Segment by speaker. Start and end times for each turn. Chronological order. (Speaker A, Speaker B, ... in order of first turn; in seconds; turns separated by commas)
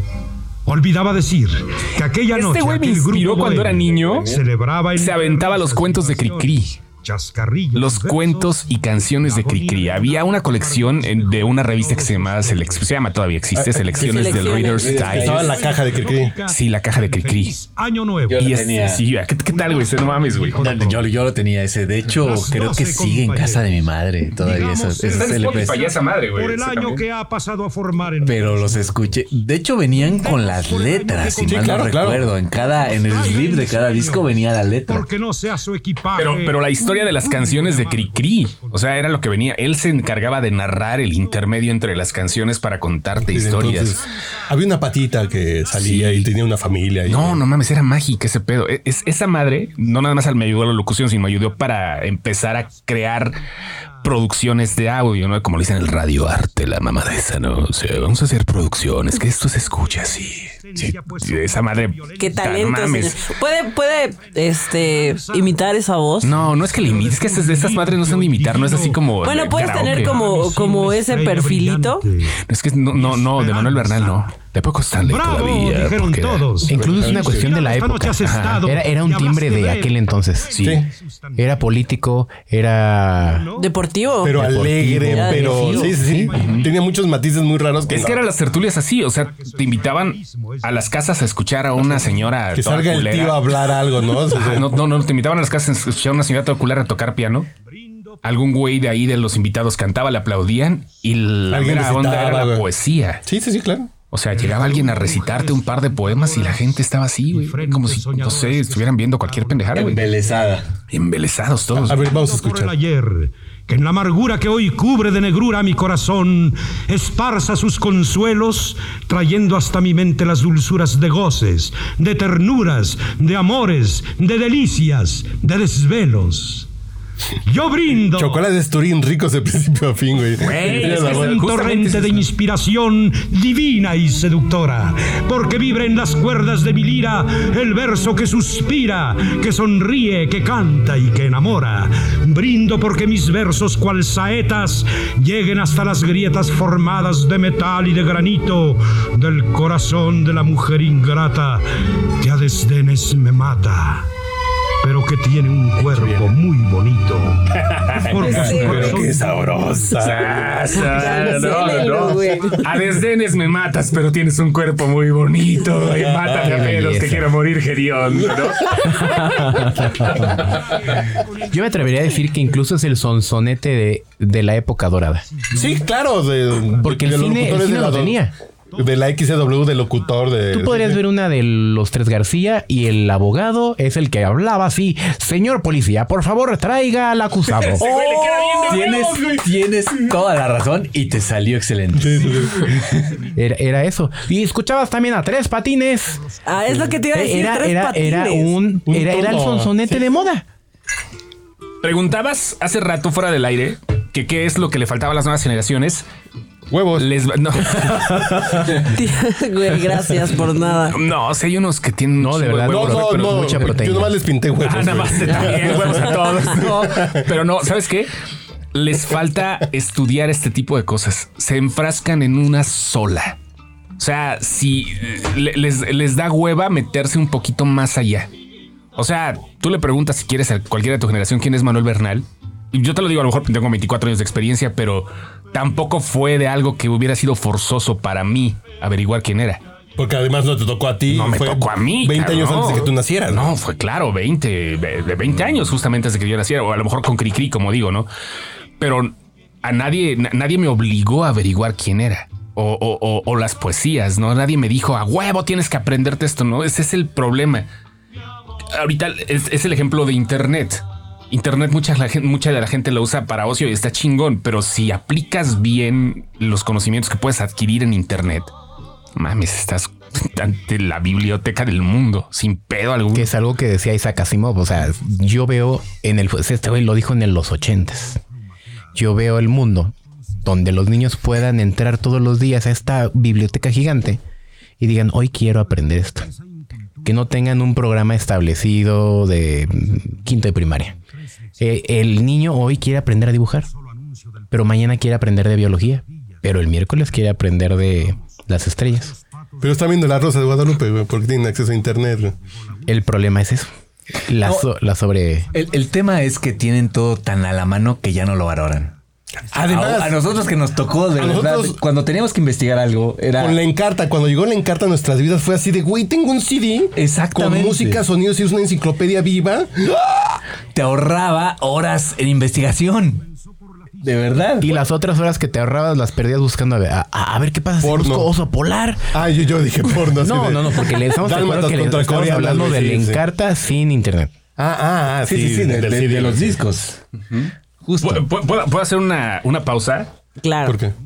Speaker A: 0.7-12.9, Speaker B: 2.3-4.4, Speaker B: 4.9-6.8, Speaker B: 7.7-15.5, Speaker C: 13.6-14.0, Speaker A: 13.8-18.7, Speaker D: 14.0-14.9, Speaker E: 14.8-15.6, Speaker C: 15.0-16.4, Speaker B: 16.5-17.6, Speaker E: 18.3-19.0, Speaker B: 18.3-20.7, Speaker A: 19.5-21.2, Speaker E: 20.6-25.9, Speaker A: 22.1-29.2, Speaker B: 25.1-27.0, Speaker E: 28.2-35.1, Speaker A: 29.9-39.2, Speaker C: 31.4-32.3, Speaker B: 36.1-44.0, Speaker A: 41.1-41.4, Speaker C: 43.2-47.4, Speaker A: 43.6-45.8, Speaker B: 45.8-46.2, Speaker B: 47.1-53.4, Speaker A: 49.6-50.2, Speaker B: 54.0-63.2, Speaker A: 59.6-72.4, Speaker D: 62.2-66.3, Speaker B: 66.2-70.2, Speaker D: 69.2-72.0, Speaker B: 72.5-76.5, Speaker A: 72.9-74.3, Speaker A: 75.0-81.8, Speaker F: 76.6-80.8, Speaker C: 76.7-77.5, Speaker B: 78.2-78.7, Speaker C: 80.6-80.9, Speaker F: 81.4-83.5, Speaker A: 83.2-83.8, Speaker D: 83.6-85.9, Speaker C: 84.2-88.2, Speaker F: 84.3-86.3, Speaker A: 85.6-86.8, Speaker B: 86.4-86.7, Speaker B: 87.9-93.5, Speaker A: 89.2-90.9, Speaker A: 91.9-92.3, Speaker C: 92.5-94.7, Speaker B: 94.3-97.5, Speaker A: 97.6-98.2, Speaker B: 98.2-103.2, Speaker C: 101.5-102.7, Speaker C: 103.2-103.9, Speaker B: 104.1-110.1, Speaker A: 104.3-110.5, Speaker E: 109.7-110.7, Speaker B: 110.9-112.1, Speaker C: 111.8-112.8, Speaker A: 111.9-126.7, Speaker A: 127.4-128.4, Speaker C: 128.1-131.4, Speaker B: 130.4-132.2, Speaker A: 130.6-151.6, Speaker A: 152.2-154.1, Speaker A: 154.8-159.4, Speaker C: 155.8-156.3, Speaker B: 157.6-158.1, Speaker D: 158.2-159.0, Speaker C: 158.2-162.4, Speaker B: 160.0-169.2, Speaker D: 160.8-162.6, Speaker C: 165.9-166.6, Speaker F: 166.2-167.3, Speaker F: 169.0-170.4, Speaker A: 169.5-172.2, Speaker F: 171.5-175.2, Speaker A: 175.3-175.9, Speaker C: 175.5-178.2, Speaker F: 176.8-178.3, Speaker C: 178.8-181.0, Speaker F: 180.5-187.9, Speaker B: 187.6-189.4, Speaker D: 188.0-188.8, Speaker E: 188.7-192.3, Speaker C: 191.9-192.8, Speaker A: 192.5-193.2, Speaker F: 193.3-196.2, Speaker D: 196.4-198.5, Speaker F: 197.1-200.4, Speaker C: 198.8-200.0, Speaker B: 201.8-206.1, Speaker C: 206.7-207.1, Speaker B: 206.9-208.8, Speaker C: 207.7-208.1, Speaker D: 208.8-211.0, Speaker B: 210.8-213.7, Speaker F: 212.2-214.2, Speaker C: 212.7-217.3, Speaker B: 214.6-218.1, Speaker B: 218.7-223.4, Speaker B: 224.0-228.3, Speaker B: 228.9-239.6, Speaker C: 240.0-243.5, Speaker B: 241.1-248.1, Speaker B: 248.8-257.7, Speaker B: 258.7-268.5, Speaker B: 269.1-273.3, Speaker F: 273.1-278.2, Speaker F: 278.9-284.2, Speaker F: 284.8-286.3, Speaker A: 286.2-287.1, Speaker F: 287.0-290.9, Speaker A: 291.1-291.6, Speaker F: 291.6-293.7, Speaker A: 293.6-294.8, Speaker F: 294.5-299.1, Speaker A: 296.0-296.5, Speaker A: 297.9-299.8, Speaker C: 299.6-302.3, Speaker F: 302.9-303.7, Speaker F: 304.2-305.5, Speaker E: 304.4-304.7, Speaker E: 305.5-308.9, Speaker A: 305.6-305.9, Speaker C: 309.5-310.3, Speaker E: 309.6-313.6, Speaker C: 311.1-311.8, Speaker C: 313.4-320.3, Speaker E: 316.9-318.0, Speaker E: 320.7-323.2, Speaker A: 323.2-324.7, Speaker E: 324.0-324.7, Speaker F: 324.6-329.1, Speaker C: 327.8-328.3, Speaker C: 329.1-333.2, Speaker F: 330.1-334.3, Speaker C: 334.6-336.6, Speaker E: 335.3-337.0, Speaker B: 337.3-340.1, Speaker E: 337.8-338.2, Speaker D: 340.4-340.8, Speaker C: 340.6-340.9